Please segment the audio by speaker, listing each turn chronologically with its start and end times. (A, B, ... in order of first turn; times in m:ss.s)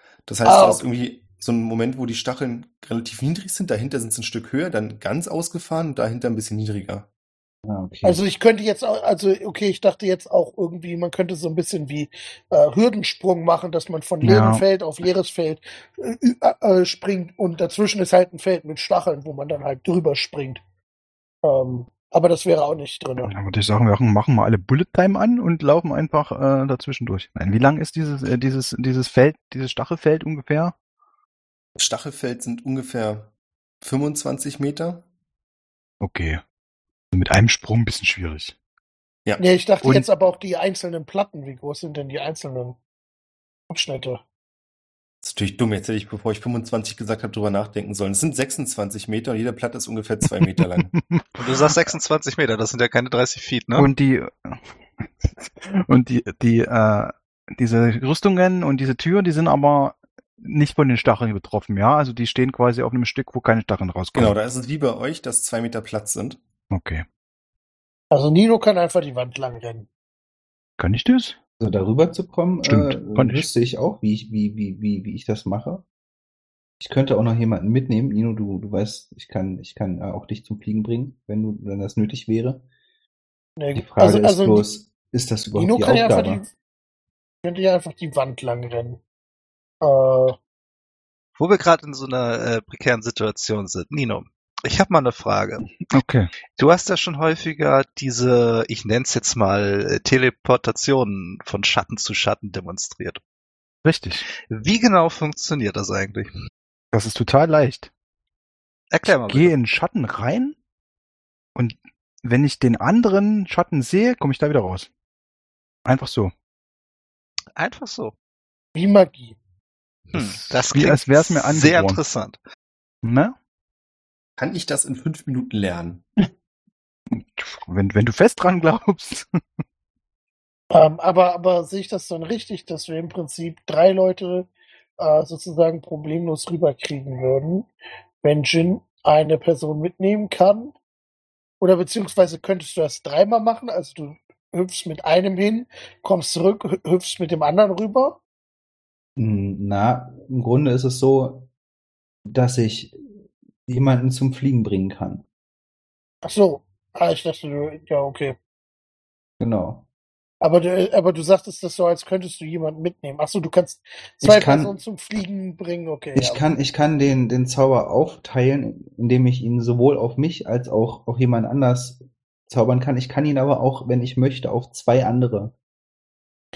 0:00.3-0:07.1 A
0:00.4-0:00.8 B
0:07.6-0:08.2 C
0:08.0-0:20.6 B
0:14.2-0:14.6 D
0:21.4-0:23.3 B
0:23.2-0:30.7 D
0:31.8-0:33.3 A
0:33.8-0:35.0 A
0:36.0-0:36.4 D
0:37.1-0:38.6 D
0:39.4-0:42.8 B
0:39.8-0:40.1 D
0:43.7-0:44.2 B
0:45.2-0:50.9 A
0:50.3-0:51.9 D
0:51.4-0:53.9 E
0:53.7-1:04.4 D
1:04.1-1:06.4 A
1:06.7-1:07.0 D
1:08.1-1:09.9 B
1:10.8-1:11.4 D
1:11.6-1:15.8 C
1:12.6-1:13.5 D
1:16.8-1:22.6 C
1:23.6-1:24.7 B
1:23.7-1:26.4 C
1:25.6-1:26.5 B
1:27.4-1:29.0 B
1:29.8-1:30.4 B
1:31.4-1:35.6 E
1:35.8-1:36.3 D
1:36.6-1:43.2 E
1:43.8-1:44.3 D
1:44.3-1:46.3 E
1:46.9-1:47.9 D
1:48.9-1:49.5 E
1:49.1-1:50.6 D
1:51.6-1:54.9 D
1:55.8-1:56.3 D
1:57.6-1:58.1 E
1:58.7-1:59.4 B
2:00.1-2:02.4 E
2:00.1-2:02.0 D
2:03.0-2:03.3 D
2:04.4-2:06.0 A
2:07.1-2:09.3 D
2:10.7-2:17.7 B
2:18.2-2:20.8 B
2:21.6-2:28.2 B
2:29.2-2:31.5 C
2:32.3-2:33.0 C
2:33.7-2:35.2 C
2:36.2-2:38.4 B
2:39.4-2:39.9 C
2:40.4-2:46.4 B
2:44.2-2:44.7 C
2:46.1-2:55.6 C